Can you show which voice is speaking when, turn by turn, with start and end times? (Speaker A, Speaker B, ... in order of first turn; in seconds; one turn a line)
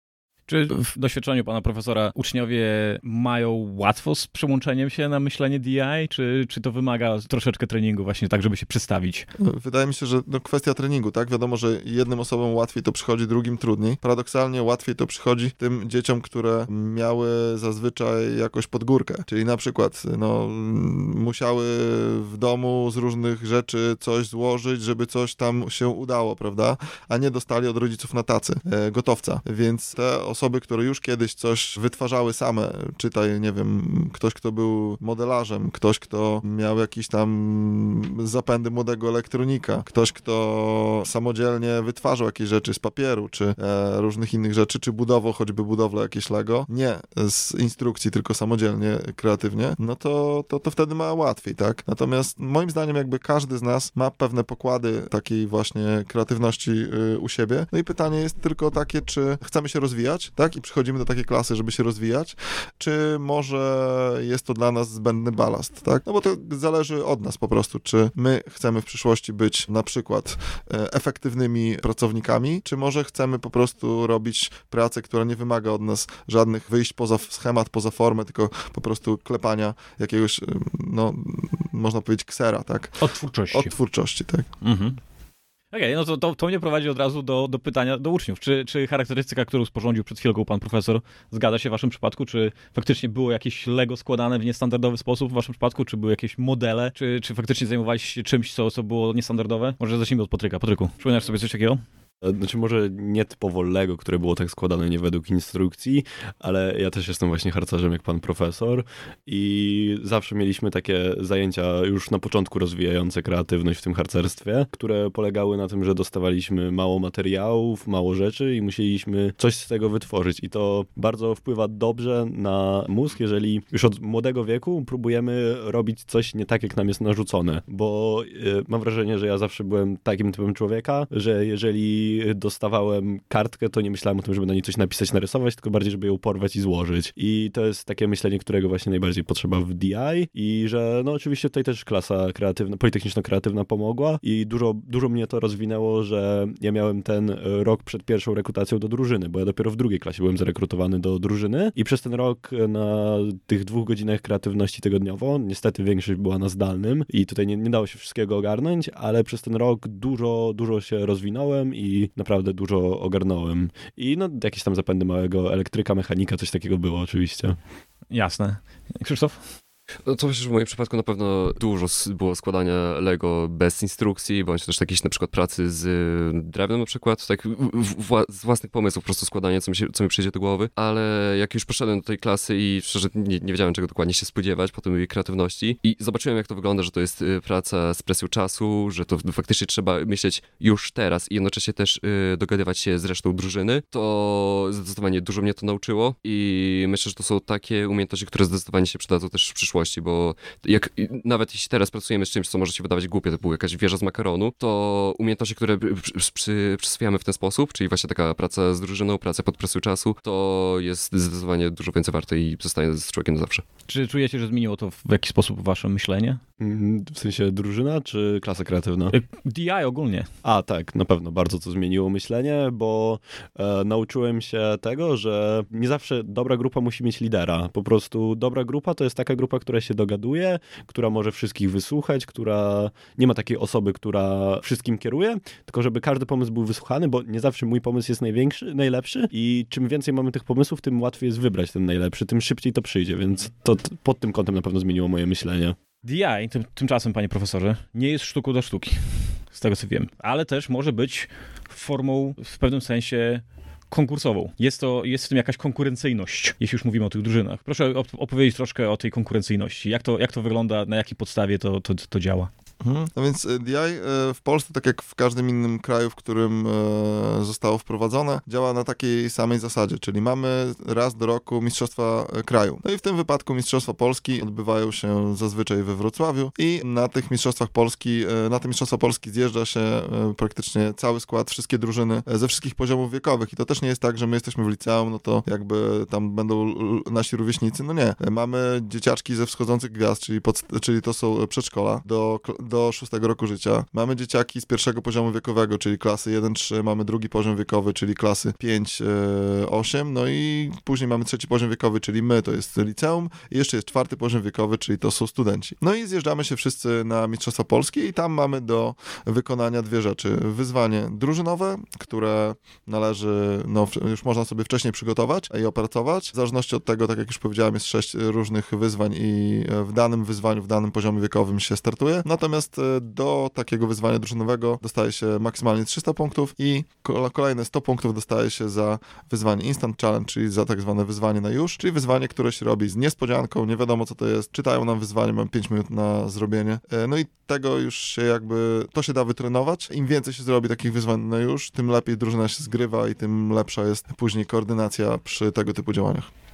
Speaker A: 0.5-9.3
Speaker B: 9.4-83.0
Speaker A: 83.0-83.7
Speaker B: 83.5-84.5
Speaker A: 84.6-85.0
Speaker A: 85.7-101.8
Speaker C: 102.2-167.6
Speaker A: 168.1-169.4
Speaker D: 170.1-213.6
Speaker A: 213.9-216.4
Speaker C: 216.6-219.1
Speaker A: 219.1-220.3
Speaker C: 220.4-245.8
Speaker A: 246.1-262.5
Speaker B: 262.8-346.3